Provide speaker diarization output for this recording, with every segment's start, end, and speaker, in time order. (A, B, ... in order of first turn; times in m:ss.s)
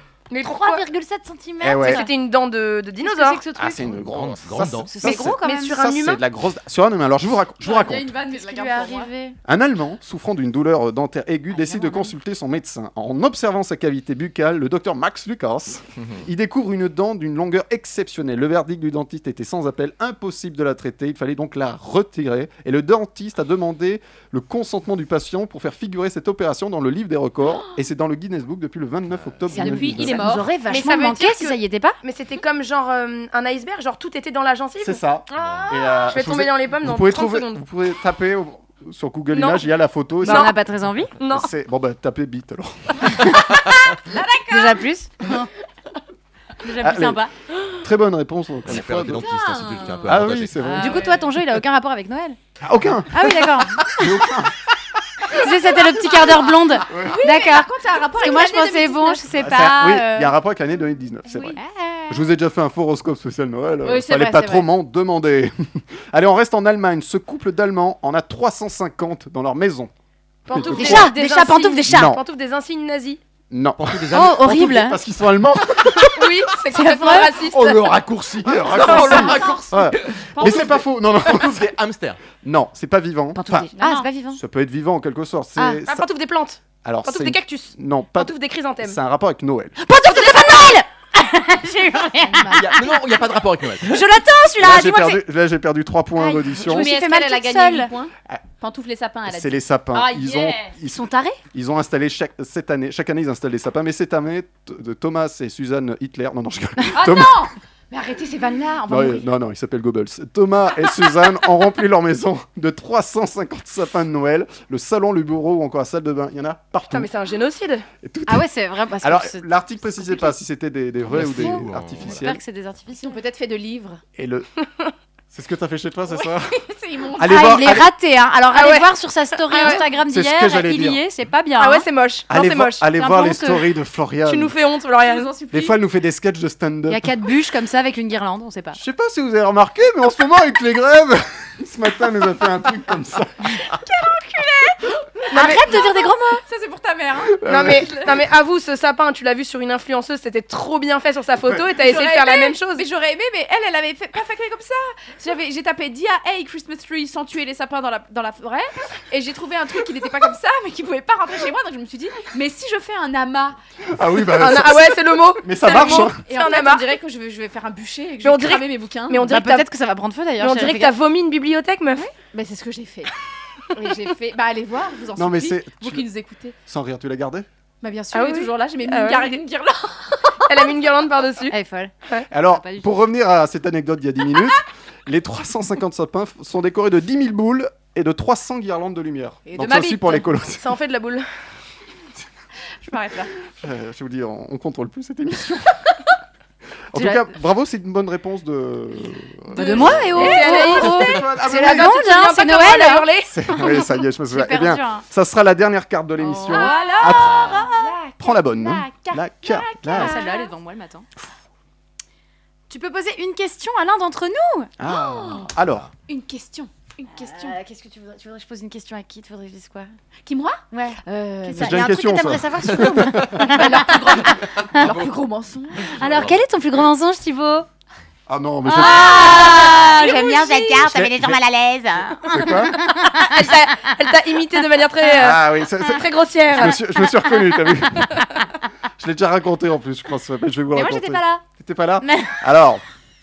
0:00.3-0:00.8 A
0:00.5-0:02.1 B
0:01.6-0:02.0 C
0:01.8-0:03.4 A
0:03.0-0:04.0 B
0:03.5-0:08.1 C
0:03.8-0:04.9 D
0:04.8-0:05.8 B
0:05.0-0:06.2 A
0:07.6-0:09.1 E
0:08.2-0:09.4 B
0:09.4-0:30.3 C
0:11.5-0:12.1 B
0:29.1-0:29.4 D
0:29.5-0:30.5 E
0:29.5-0:32.0 B
0:30.6-0:35.0 A
0:34.8-0:40.5 C
0:35.3-0:36.1 E
0:35.4-0:35.6 D
0:36.0-0:37.6 A
0:39.3-0:39.7 A
0:40.2-0:41.2 B
0:40.2-0:40.6 A
0:41.2-0:41.5 A
0:41.3-0:43.4 C
0:43.2-0:43.6 B
0:44.1-0:44.8 E
0:44.5-0:45.5 B
0:46.6-0:47.3 B
0:46.8-0:47.2 C
0:47.8-0:49.3 C
0:48.6-0:50.6 D
0:49.2-0:50.1 E
0:50.0-0:51.1 C
0:50.6-0:52.4 B
0:50.8-0:51.2 E
0:52.6-0:54.5 C
0:53.1-0:54.3 B
0:55.3-1:00.3 B
0:56.4-0:59.3 E
0:56.9-0:57.2 C
0:59.4-1:09.9 C
1:01.3-1:01.6 E
1:01.5-1:02.2 B
1:03.9-1:04.6 E
1:03.9-1:04.6 B
1:10.5-1:13.2 A
1:10.5-1:11.1 C
1:10.7-1:12.2 B
1:11.8-1:12.2 C
1:13.5-1:16.3 C
1:13.8-1:14.4 D
1:14.1-1:15.0 B
1:16.1-1:17.9 A
1:16.7-1:17.4 B
1:17.5-1:21.7 C
1:18.4-1:22.2 D
1:18.7-1:19.4 A
1:18.8-1:20.8 E
1:22.4-1:23.7 C
1:23.3-1:24.4 B
1:23.8-1:24.1 E
1:24.3-1:26.1 C
1:25.9-1:29.0 A
1:26.8-1:29.8 C
1:29.8-1:33.2 B
1:32.5-1:34.1 D
1:33.8-1:35.2 B
1:34.6-1:36.9 C
1:36.2-1:37.9 B
1:36.5-1:40.7 E
1:39.3-1:47.5 C
1:40.8-1:41.4 B
1:46.9-1:49.3 E
1:48.9-1:57.1 C
1:56.9-1:57.8 A
1:58.0-1:58.5 C
1:58.3-2:00.3 B
1:59.0-2:02.4 C
2:01.1-2:02.3 D
2:01.1-2:03.2 B
2:02.9-2:04.0 E
2:04.2-2:04.5 C
2:05.3-2:06.6 C
2:06.1-2:07.7 E
2:07.2-2:07.9 C
2:07.2-2:11.9 B
2:08.5-2:08.9 A
2:09.5-2:09.9 A
2:09.5-2:09.8 E
2:10.1-2:11.0 C
2:11.6-2:12.9 A
2:12.3-2:14.6 C
2:12.9-2:13.7 B
2:14.2-2:15.3 A
2:15.0-2:15.8 E
2:15.5-2:17.1 C
2:16.9-2:18.8 B
2:18.7-2:23.6 C
2:23.9-2:28.1 E
2:25.3-2:26.4 B
2:25.3-2:25.8 A
2:27.4-2:27.9 C
2:27.4-2:32.8 A
2:31.7-2:43.6 E
2:43.9-2:46.2 C
2:44.3-2:46.9 A
2:45.6-2:49.4 E
2:48.2-2:49.7 A
2:49.2-2:50.9 B
2:50.4-2:52.1 A
2:52.3-2:53.1 E
2:53.7-2:56.6 E
2:55.2-2:56.0 C
2:56.6-2:57.5 C
2:57.8-3:00.7 E
2:58.1-2:59.4 A
3:00.5-3:01.5 A
3:01.5-3:01.9 B
3:02.3-3:10.6 C
3:02.5-3:02.9 B
3:09.4-3:10.2 E
3:10.5-3:11.3 A
3:12.8-3:13.3 E
3:13.5-3:15.8 C
3:16.9-3:22.0 C
3:16.9-3:17.3 B
3:19.5-3:23.1 B
3:19.6-3:23.3 A
3:19.7-3:20.9 E
3:23.3-3:27.5 C
3:23.6-3:25.0 B
3:26.2-3:28.0 B
3:26.4-3:30.5 E
3:28.2-3:30.3 C
3:29.9-3:31.0 B
3:32.7-3:34.7 B
3:34.8-3:35.9 C
3:34.8-3:35.5 E
3:36.1-3:37.6 E
3:37.1-3:39.9 B
3:40.2-3:42.2 E
3:40.7-3:45.0 B
3:41.5-3:43.6 C
3:43.2-3:45.9 E
3:45.9-3:47.7 B
3:46.0-3:46.4 D
3:48.3-3:49.8 C
3:48.6-3:53.9 B
3:49.1-3:50.7 A
3:49.2-3:50.1 E
3:50.8-3:51.4 C
3:52.3-3:52.8 C
3:53.1-3:57.1 A
3:55.2-3:58.2 C
3:59.0-4:02.8 C
4:00.7-4:01.4 B
4:02.0-4:02.4 B